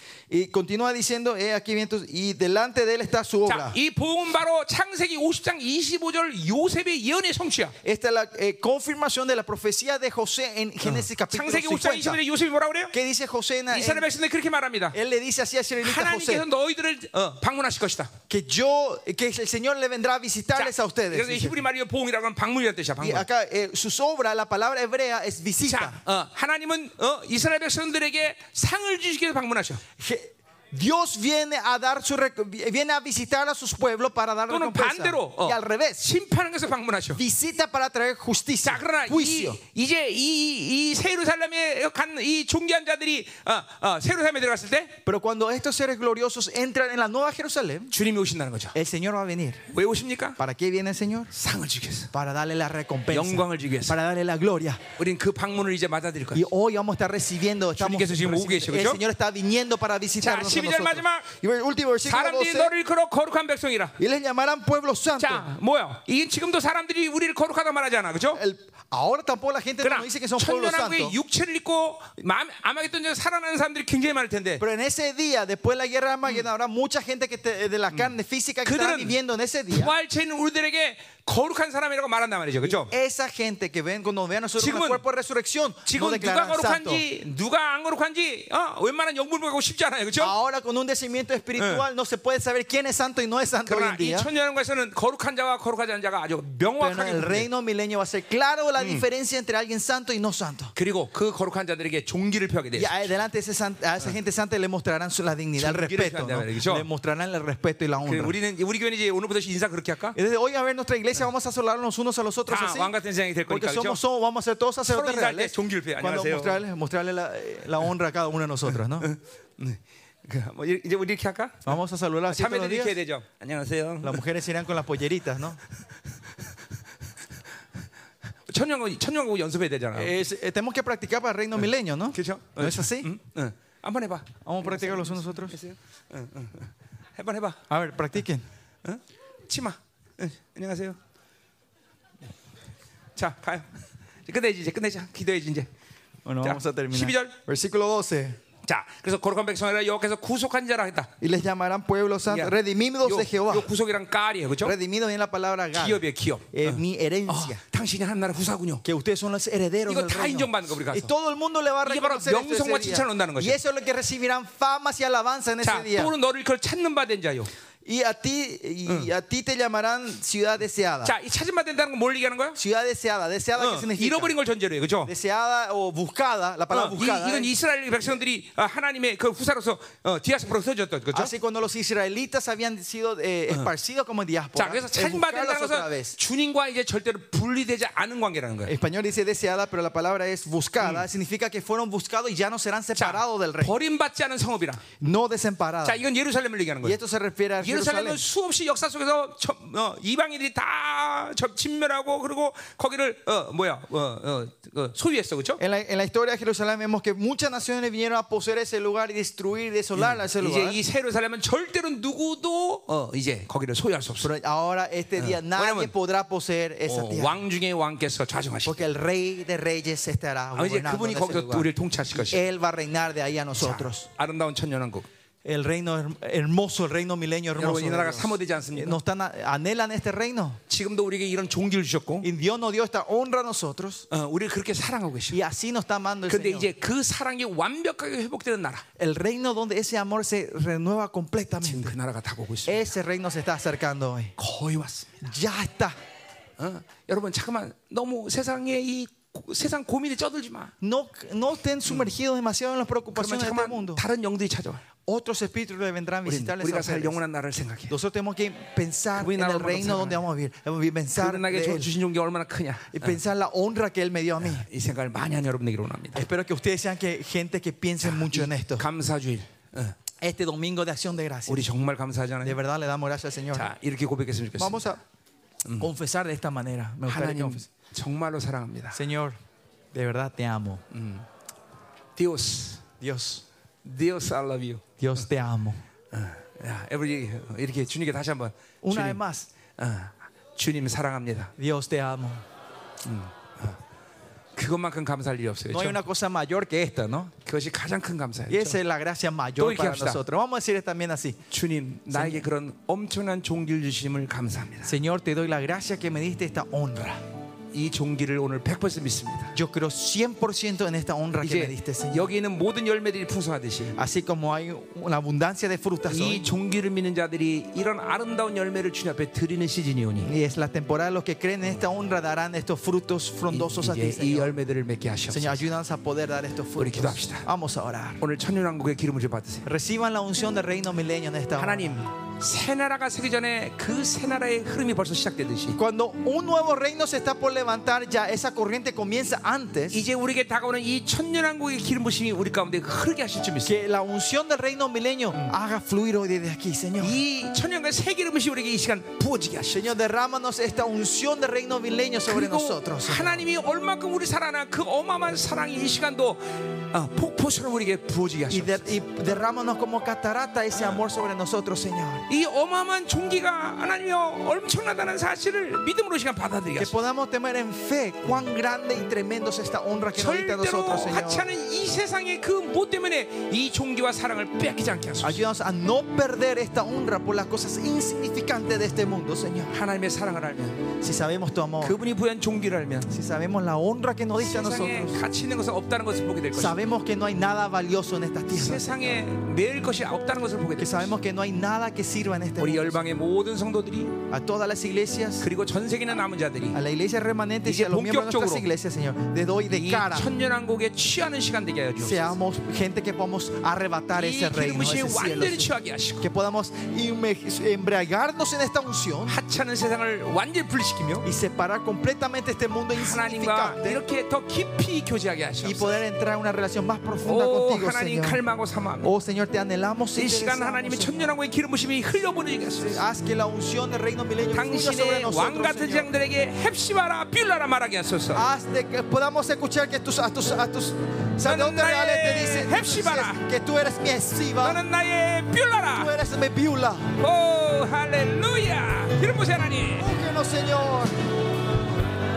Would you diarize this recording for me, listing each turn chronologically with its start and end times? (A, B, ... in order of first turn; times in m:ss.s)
0:00.3-0:03.8 A
0:03.4-0:07.7 B
0:07.8-0:12.2 A
0:10.8-0:12.9 B
0:12.9-0:14.1 A
0:13.7-0:15.0 B
0:14.9-0:16.4 A
0:15.8-0:18.1 B
0:18.3-0:21.6 A
0:20.5-0:23.2 B
0:23.0-0:26.0 A
0:25.6-0:29.8 B
0:30.0-0:36.0 A
0:34.5-0:37.2 B
0:37.2-0:39.6 A
0:38.6-0:45.0 B
0:45.0-0:47.9 A
0:47.9-0:48.7 B
0:48.7-0:49.6 A
0:49.7-0:50.4 B
0:50.4-0:51.3 A
0:51.3-0:52.1 B
0:52.1-0:54.8 A
0:53.1-0:54.0 B
0:55.0-0:56.5 B
0:56.3-1:02.7 A
0:57.8-0:59.0 B
1:00.2-1:01.3 B
1:02.0-1:03.9 B
1:04.0-1:05.5 A
1:05.2-1:08.4 B
1:08.3-1:11.2 A
1:09.8-1:14.6 B
1:14.6-1:19.9 A
1:18.6-1:19.2 B
1:19.7-1:22.9 B
1:22.6-1:27.0 A
1:24.6-1:25.0 B
1:25.8-1:30.3 B
1:30.2-1:34.3 A
1:31.6-1:31.8 B
1:33.6-1:37.5 B
1:36.8-1:40.7 A
1:38.8-1:39.0 B
1:40.7-1:43.1 B
1:42.8-1:48.3 A
1:45.6-1:46.8 B
1:48.0-1:50.2 B
1:50.1-1:52.9 A
1:52.5-1:54.0 B
1:53.5-1:59.1 A
1:54.9-1:56.6 B
1:59.0-2:01.8 B
2:01.6-2:03.0 A
2:02.3-2:04.2 B
2:04.0-2:05.6 A
2:08.5-2:10.1 B
2:09.9-2:13.1 A
2:12.1-2:17.6 B
2:14.4-2:15.6 A
2:17.7-2:18.4 A
2:18.8-2:21.0 B
2:23.2-2:25.7 B
2:26.2-2:28.4 A
2:26.4-2:27.4 B
2:28.6-2:31.1 B
2:31.2-2:33.7 A
2:32.3-2:34.7 B
2:34.6-2:37.6 A
2:35.7-2:38.8 B
2:38.8-2:46.1 A
2:39.9-2:41.1 B
2:41.8-2:43.6 B
2:45.6-2:47.5 B
2:47.8-2:51.1 A
2:51.0-2:52.6 B
2:52.6-2:54.3 A
2:53.6-2:55.1 B
2:55.0-2:57.5 A
2:56.7-3:01.3 B
3:01.1-3:06.2 A
3:04.5-3:08.7 B
3:08.6-3:13.7 A
3:13.0-3:14.8 B
3:15.0-3:16.0 A
3:15.8-3:17.0 B
3:16.8-3:18.2 A
3:17.6-3:25.6 B
3:25.6-3:30.8 A
3:29.9-3:34.3 B
3:34.2-3:37.4 A
3:35.2-3:35.9 B
3:36.9-3:38.8 B
3:38.6-3:44.1 A
3:40.5-3:42.4 B
3:43.6-3:45.1 B
3:45.4-3:50.6 A
3:47.6-3:49.0 B
3:50.7-3:52.3 B
3:52.2-3:54.0 A
3:54.1-3:55.4 B
3:55.3-3:56.7 A
3:56.3-3:58.8 B
3:59.0-4:01.9 A
4:01.6-4:02.9 B
4:02.6-4:04.3 A
4:04.4-4:05.3 B
4:05.2-4:05.9 A
4:06.6-4:10.7 B
4:10.8-4:14.0 A
4:13.1-4:14.8 B
4:15.0-4:17.2 A
4:16.2-4:18.0 B
4:17.9-4:21.9 A
4:19.1-4:20.2 B
4:21.1-4:23.2 B
4:22.9-4:24.7 A
4:24.5-4:26.3 B
4:26.1-4:28.9 A
4:28.0-4:30.0 B
4:30.2-4:31.7 A
4:31.5-4:32.6 B
4:32.4-4:33.7 A
4:33.5-4:34.8 B
4:34.6-4:35.0 A
4:35.8-4:37.7 A
4:37.1-4:39.0 B
4:38.9-4:39.4 A
4:39.9-4:40.8 A
4:40.9-4:41.2 B
4:42.2-4:42.8 B
4:43.0-4:43.4 A
4:43.8-4:44.8 B
4:45.0-4:45.8 A
4:46.1-4:49.2 B
4:48.8-4:49.5 A
4:49.8-4:51.5 B
4:51.6-4:52.4 A
4:53.0-4:53.8 B
4:54.6-4:56.0 B
4:55.7-4:57.3 A
4:57.4-4:58.8 B
4:58.5-5:01.4 A
4:59.6-5:00.2 B
5:01.5-5:04.9 B
5:02.1-5:02.4 A
5:04.8-5:07.2 A
5:07.7-5:09.5 B
5:09.5-5:12.3 A
5:11.4-5:14.0 B
5:14.0-5:16.5 A
5:16.1-5:20.3 B
5:20.3-5:24.6 A
5:23.5-5:25.6 B
5:25.3-5:28.2 A
5:26.8-5:27.4 B
5:28.2-5:29.7 B
5:29.6-5:32.1 A
5:31.6-5:35.8 B
5:35.7-5:40.0 A
5:39.9-5:43.8 B
5:43.6-5:47.2 A
5:47.0-5:49.8 B
5:49.7-5:53.4 A
5:52.3-5:58.9 B
5:58.5-6:02.2 A
6:02.3-6:06.9 B
6:06.8-6:11.5 A
6:10.2-6:15.4 B
6:15.2-6:19.7 A
6:19.7-6:20.8 B
6:21.0-6:22.0 A
6:21.8-6:23.1 B
6:23.1-6:25.2 A
6:24.4-6:26.8 B
6:26.5-6:29.2 A
6:28.5-6:31.1 B
6:30.8-6:33.2 A
6:32.6-6:34.2 B
6:34.3-6:35.4 A
6:35.4-6:36.8 B
6:36.7-6:40.3 A
6:37.6-6:38.6 B
6:39.7-6:42.4 B
6:42.0-6:49.4 A
6:44.1-6:46.3 B
6:49.3-6:51.2 B
6:51.2-6:54.0 A
6:52.9-6:56.0 B
6:55.6-6:58.4 A
6:57.2-6:59.1 B
6:59.0-7:01.3 A
7:00.2-7:03.0 B
7:02.8-7:06.1 A
7:04.5-7:08.5 B
7:08.3-7:14.8 A
7:11.4-7:13.4 B
7:14.6-7:16.1 B
7:15.9-7:17.1 A
7:17.2-7:20.1 B
7:20.0-7:21.2 A